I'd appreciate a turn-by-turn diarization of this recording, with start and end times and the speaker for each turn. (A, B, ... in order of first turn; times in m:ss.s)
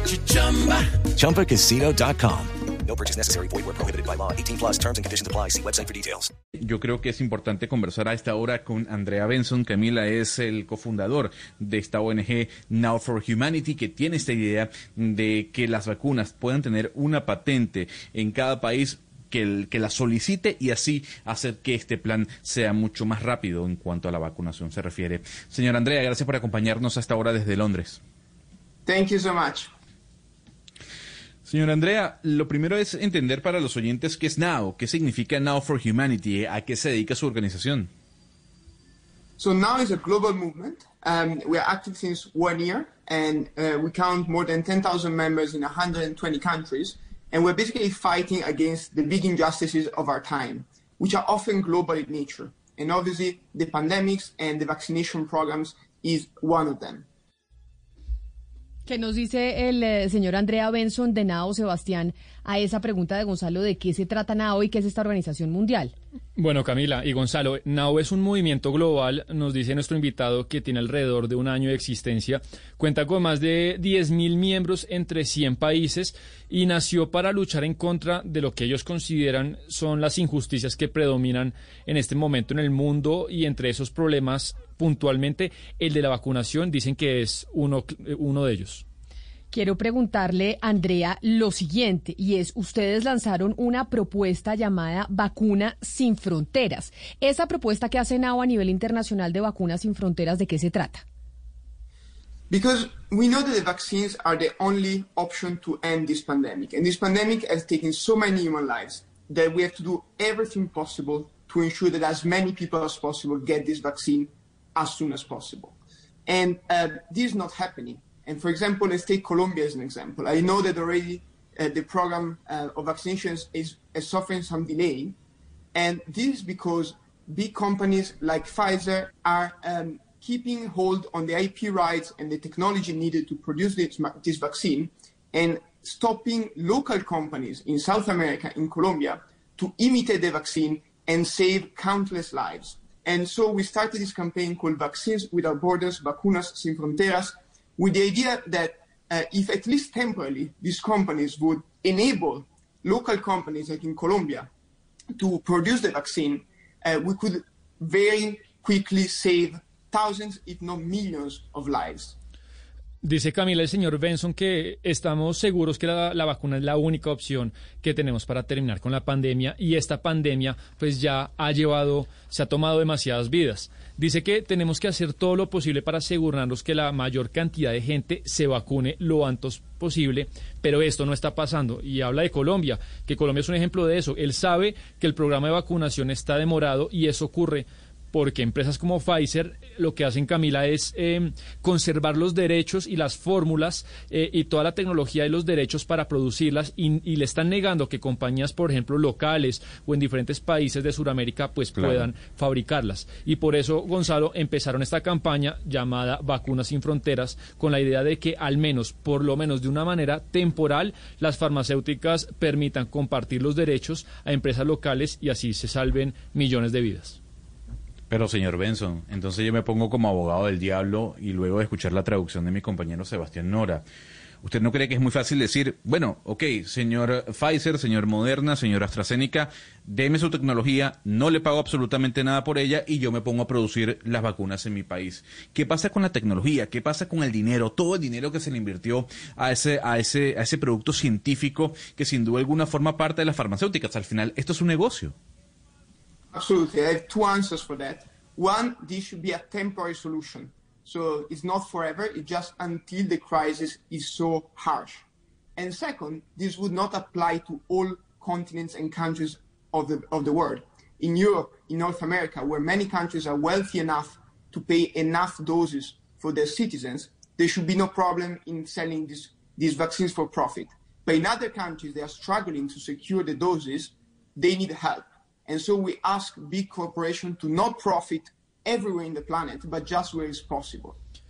0:01.0-0:06.3 A
0:06.6-0:28.0 B
0:28.8-0:29.7 C
0:31.4-0:37.9 B
0:39.4-0:57.1 C
0:58.8-1:05.9 D
1:06.4-1:28.8 E
1:29.5-1:41.0 D
1:42.5-2:05.2 C
2:05.7-2:34.5 C
2:35.2-2:42.2 C
2:43.0-3:37.2 E
3:21.8-3:22.0 B
3:38.1-3:43.8 B
3:44.4-4:05.1 B
4:06.3-4:15.0 C
4:15.6-4:41.0 C